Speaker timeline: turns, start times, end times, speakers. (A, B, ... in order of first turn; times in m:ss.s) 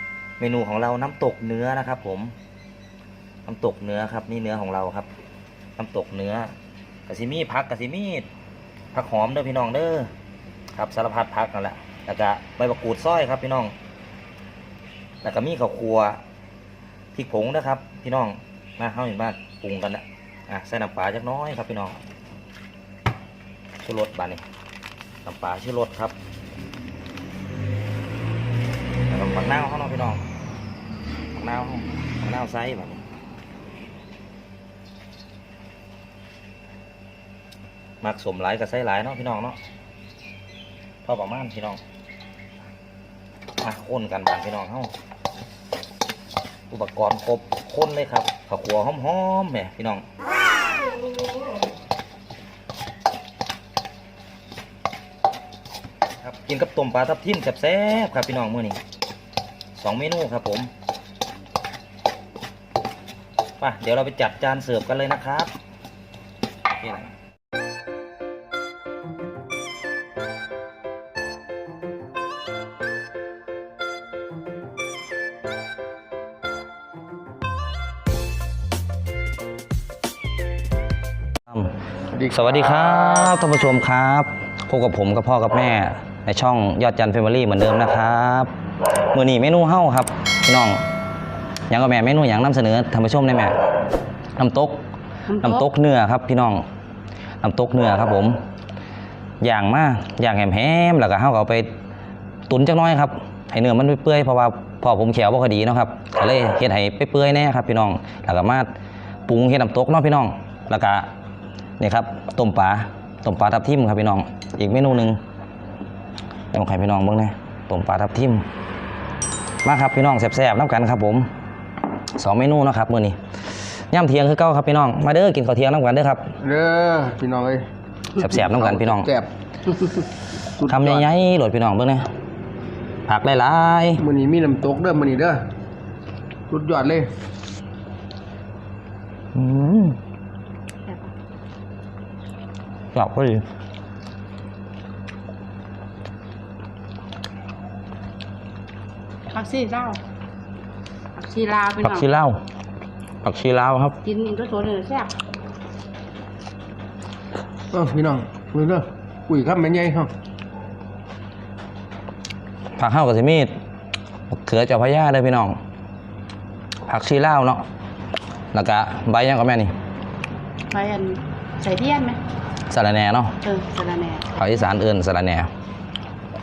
0:00.4-0:02.4 A
0:03.5-0:05.1 A
0:05.8-0:06.5 A
0:07.1-0:08.3 A
0:08.9-0:10.1 A
0:10.7-0:13.8 A
0:15.2-0:16.2 A
0:17.2-0:22.0 A
0:23.8-0:24.5 A
0:25.2-0:26.2 A
0:29.1-0:30.2 A
0:31.3-0:33.0 A
0:38.0-0:39.6 A
0:41.0-0:41.8 A
0:43.6-0:44.9 A
0:46.7-0:50.0 A
0:56.2-0:58.8 A
0:59.8-1:00.7 A
1:03.6-1:05.6 A
1:06.8-1:07.1 A
1:22.3-1:28.5 A
1:29.1-1:30.8 A
1:31.7-1:33.6 A
1:34.4-1:34.8 A
1:35.3-1:35.6 B
1:35.4-1:36.6 A
1:37.4-1:38.4 A
1:39.4-1:41.7 A
1:42.5-1:48.7 A
1:49.3-1:51.1 A
1:51.8-1:55.2 A
1:56.5-1:58.5 A
1:59.6-2:01.3 A
2:02.2-2:06.3 A
2:06.4-2:07.7 C
2:08.2-2:09.1 A
2:08.2-2:10.1 C
2:10.6-2:11.1 C
2:10.7-2:12.1 A
2:13.1-2:14.0 A
2:14.0-2:15.4 C
2:16.5-2:17.1 C
2:19.4-2:20.0 A
2:22.9-2:23.4 A
2:29.3-2:30.0 B
2:31.2-2:32.1 B
2:31.8-2:32.4 A
2:33.2-2:34.0 A
2:34.0-2:35.1 B
2:37.7-2:40.1 C
2:42.8-2:43.5 A
2:44.3-2:45.6 A
2:46.9-2:47.6 A
2:48.5-2:49.7 A
2:50.7-2:52.2 B
2:52.7-2:53.4 A
2:53.4-2:54.3 B
2:54.4-2:55.5 A